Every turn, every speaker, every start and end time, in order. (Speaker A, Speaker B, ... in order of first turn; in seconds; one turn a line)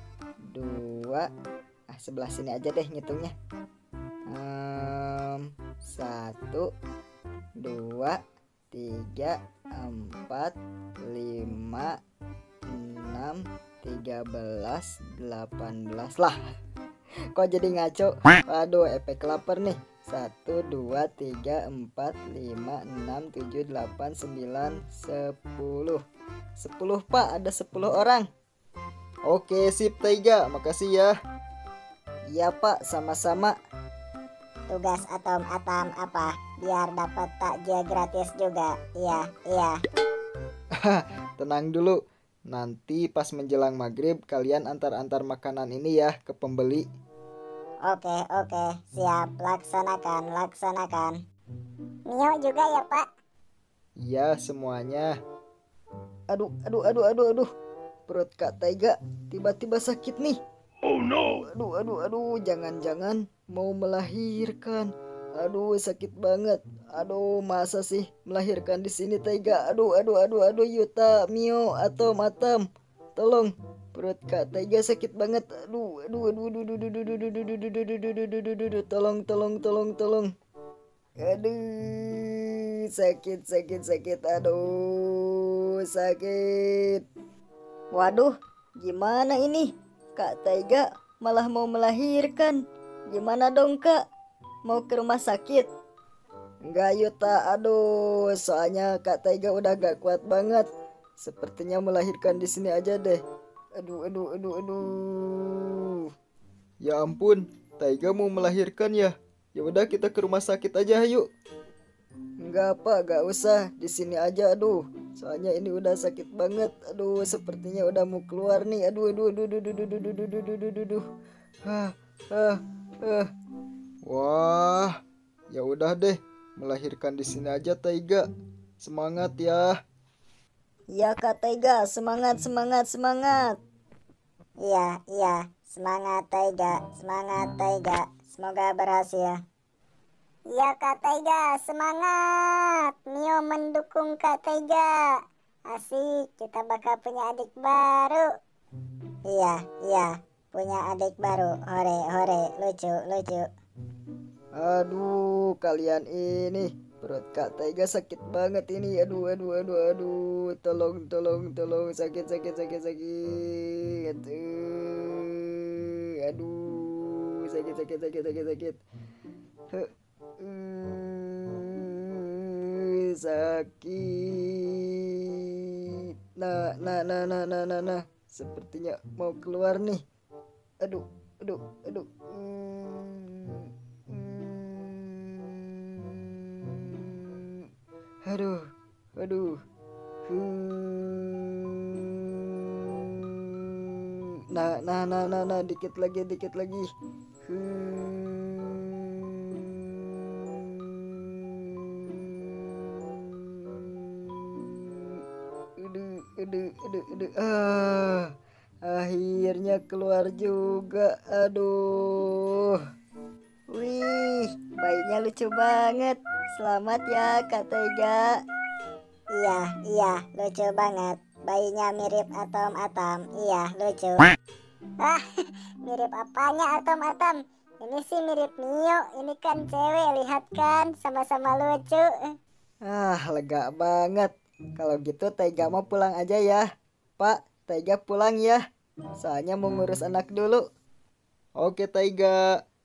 Speaker A: 0.5-1.3
Speaker A: 1.9-3.3
Speaker A: 4.3-6.7
Speaker A: 7.6-8.2
Speaker A: 8.7-12.0
Speaker A: 12.7-16.4
Speaker A: 17.3-26.0
Speaker A: 26.6-28.2
Speaker B: 29.3-31.1
Speaker A: 32.3-33.5
Speaker C: 34.7-39.8
Speaker A: 41.4-41.7
Speaker B: 41.6-42.0
Speaker B: 42.5-46.8
Speaker C: 47.8-51.1
Speaker C: 52.1-53.0
Speaker B: 54.0-55.1
Speaker A: 56.3-57.5
Speaker A: 58.1-60.4
Speaker A: 61.2-72.6
Speaker A: 73.2-80.3
Speaker A: 81.2-87.0
Speaker A: 87.9-88.3
Speaker A: 88.8-92.6
Speaker A: 93.1-94.0
Speaker A: 94.7-95.7
Speaker A: 96.7-100.7
Speaker A: 101.2-103.2
Speaker A: 103.8-106.0
Speaker B: 106.8-111.2
Speaker A: 112.4-121.0
Speaker A: 121.7-123.3
Speaker B: 124.1-124.9
Speaker B: 125.5-128.2
Speaker B: 128.8-129.7
Speaker A: 131.0-133.6
Speaker C: 134.6-139.4
Speaker C: 140.5-145.2
Speaker C: 145.7-148.2
Speaker C: 149.3-153.5
Speaker A: 154.6-165.4
Speaker A: 166.2-168.8
Speaker A: 170.4-175.7
Speaker A: 176.3-180.0
Speaker A: 180.8-187.6
Speaker A: 188.2-189.6
Speaker A: 190.3-196.8
Speaker A: 197.4-205.1
Speaker A: 205.8-208.3
Speaker A: 208.9-212.6
Speaker A: 213.7-218.2
Speaker C: 219.4-224.3
Speaker C: 225.8-232.1
Speaker A: 232.8-236.6
Speaker A: 237.2-238.6
Speaker A: 239.2-240.6
Speaker B: 241.6-242.4